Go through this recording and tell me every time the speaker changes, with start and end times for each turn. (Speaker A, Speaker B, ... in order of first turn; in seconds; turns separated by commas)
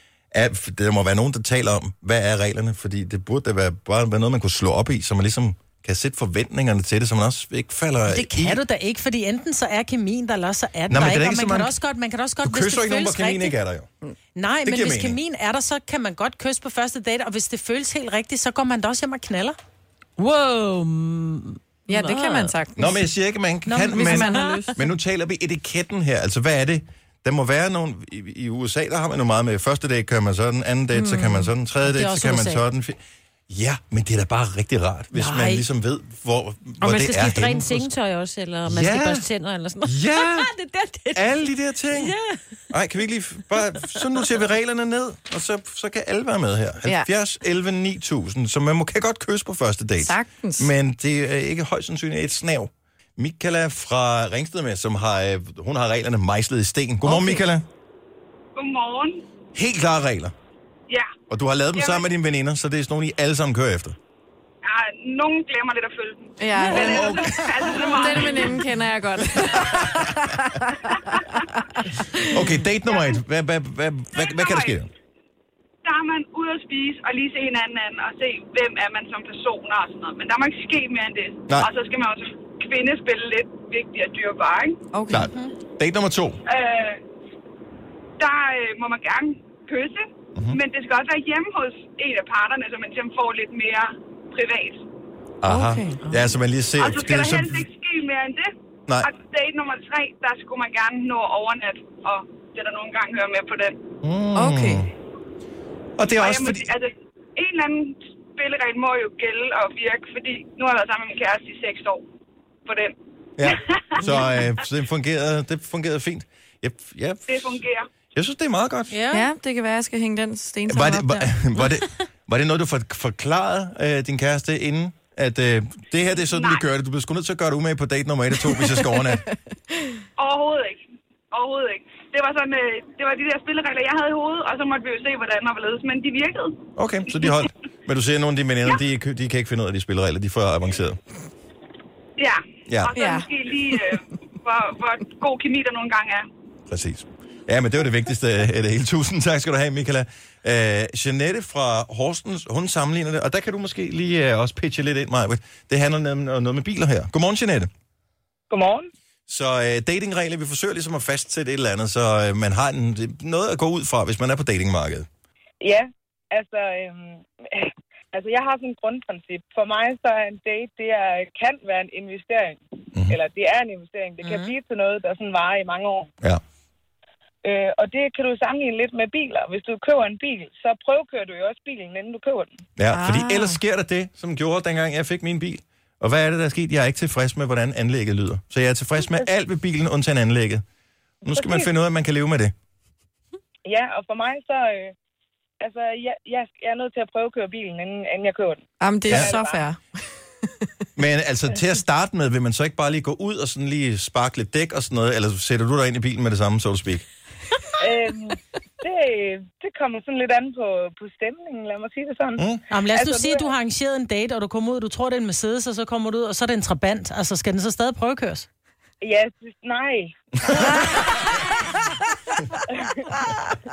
Speaker A: 0.3-8.6, Speaker B: 8.1-13.6, Speaker A: 10.9-11.8, Speaker A: 12.4-13.9, Speaker B: 14.3-19.6, Speaker A: 14.6-15.2, Speaker C: 20.2-22.6, Speaker D: 21.9-23.0, Speaker A: 22.7-37.9, Speaker B: 23.7-24.6, Speaker D: 23.9-24.8, Speaker D: 30.9-31.5, Speaker B: 31.8-32.6, Speaker B: 35.2-35.6, Speaker C: 36.8-41.4, Speaker A: 38.6-39.3, Speaker A: 39.9-40.5, Speaker A: 41.1-42.2, Speaker C: 41.9-42.2, Speaker A: 42.7-57.7, Speaker D: 50.0-50.7, Speaker D: 57.0-57.4, Speaker E: 58.6-59.2, Speaker A: 59.5-60.3, Speaker A: 61.3-64.0, Speaker E: 61.8-62.0, Speaker E: 64.6-68.6, Speaker D: 66.4-72.5, Speaker A: 66.7-68.5, Speaker A: 72.3-74.9, Speaker E: 74.2-74.7, Speaker E: 75.8-84.8, Speaker D: 84.9-85.3, Speaker A: 85.1-86.4, Speaker E: 86.5-87.0, Speaker E: 88.2-94.8, Speaker A: 90.4-90.6, Speaker A: 95.4-97.7, Speaker D: 95.5-96.0, Speaker E: 96.8-98.5, Speaker E: 99.0-103.8, Speaker A: 104.0-104.9, Speaker D: 104.3-104.9, Speaker A: 106.0-106.7, Speaker E: 106.1-112.0, Speaker E: 112.7-112.9, Speaker A: 113.4-117.6, Speaker E: 113.5-114.2, Speaker B: 114.0-114.3, Speaker E: 117.3-117.9, Speaker A: 118.1-119.0, Speaker B: 118.9-119.3, Speaker D: 119.1-121.3, Speaker A: 120.7-129.3, Speaker E: 126.3-126.6, Speaker D: 128.5-129.3, Speaker E: 130.2-130.8, Speaker E: 131.3-136.7, Speaker A: 136.8-141.0, Speaker E: 142.2-146.3, Speaker A: 142.7-142.9, Speaker D: 142.9-143.3, Speaker A: 146.7-157.7, Speaker F: 158.5-158.9, Speaker A: 159.3-165.1, Speaker F: 165.6-176.1, Speaker B: 174.2-174.5, Speaker F: 177.4-182.5, Speaker A: 182.8-190.6, Speaker D: 182.9-183.6, Speaker A: 191.2-192.5, Speaker F: 191.3-191.7, Speaker F: 193.7-194.9, Speaker F: 195.6-199.6, Speaker D: 198.8-199.8, Speaker A: 199.1-199.3, Speaker A: 201.0-207.1, Speaker F: 207.8-213.5, Speaker A: 212.4-212.6, Speaker B: 212.7-218.5, Speaker F: 219.0-221.2